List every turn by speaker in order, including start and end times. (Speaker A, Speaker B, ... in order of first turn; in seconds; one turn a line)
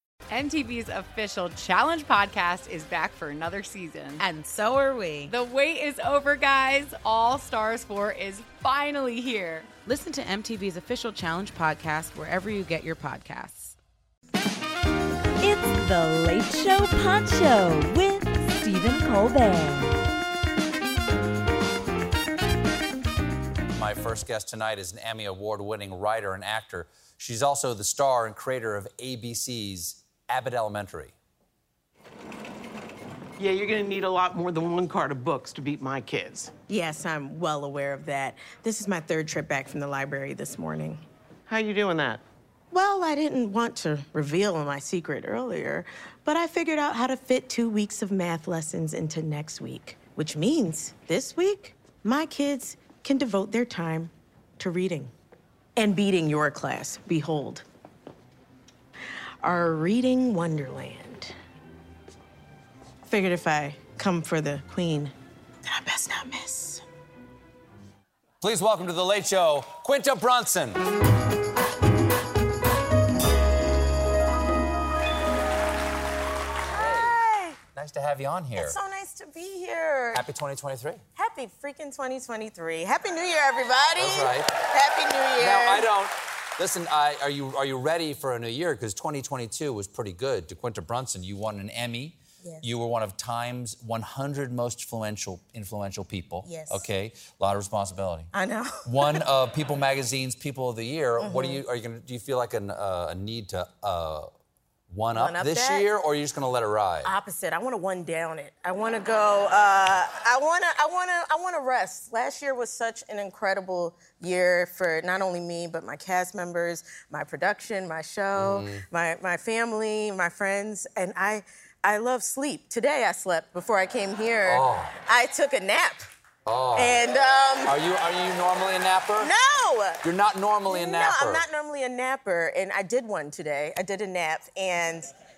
Speaker A: 0.3-4.2
Speaker B: 4.2-5.3
Speaker A: 5.3-9.7
Speaker B: 9.8-13.7
Speaker C: 15.4-20.0
Speaker D: 23.7-31.1
Speaker E: 33.4-36.5
Speaker F: 36.7-41.0
Speaker E: 41.5-42.2
Speaker F: 42.7-55.1
Speaker F: 55.8-57.6
Speaker F: 59.4-61.3
Speaker F: 63.1-65.1
Speaker F: 65.7-66.8
Speaker D: 68.4-70.8
Speaker D: 76.7-77.2
Speaker F: 76.7-77.6
Speaker D: 77.7-78.8
Speaker F: 78.6-80.2
Speaker D: 80.1-81.0
Speaker F: 81.2-85.9
Speaker D: 84.0-84.6
Speaker D: 85.4-98.3
Speaker F: 96.4-96.8
Speaker F: 98.3-99.2
Speaker D: 98.8-104.3
Speaker F: 101.2-101.6
Speaker D: 104.9-107.1
Speaker F: 105.1-105.9
Speaker F: 107.0-126.0
Speaker D: 118.3-118.8
Speaker D: 124.5-124.9
Speaker D: 126.5-127.0
Speaker F: 126.7-127.8
Speaker D: 127.7-129.3
Speaker F: 129.2-130.0
Speaker D: 130.0-131.4
Speaker F: 130.7-135.1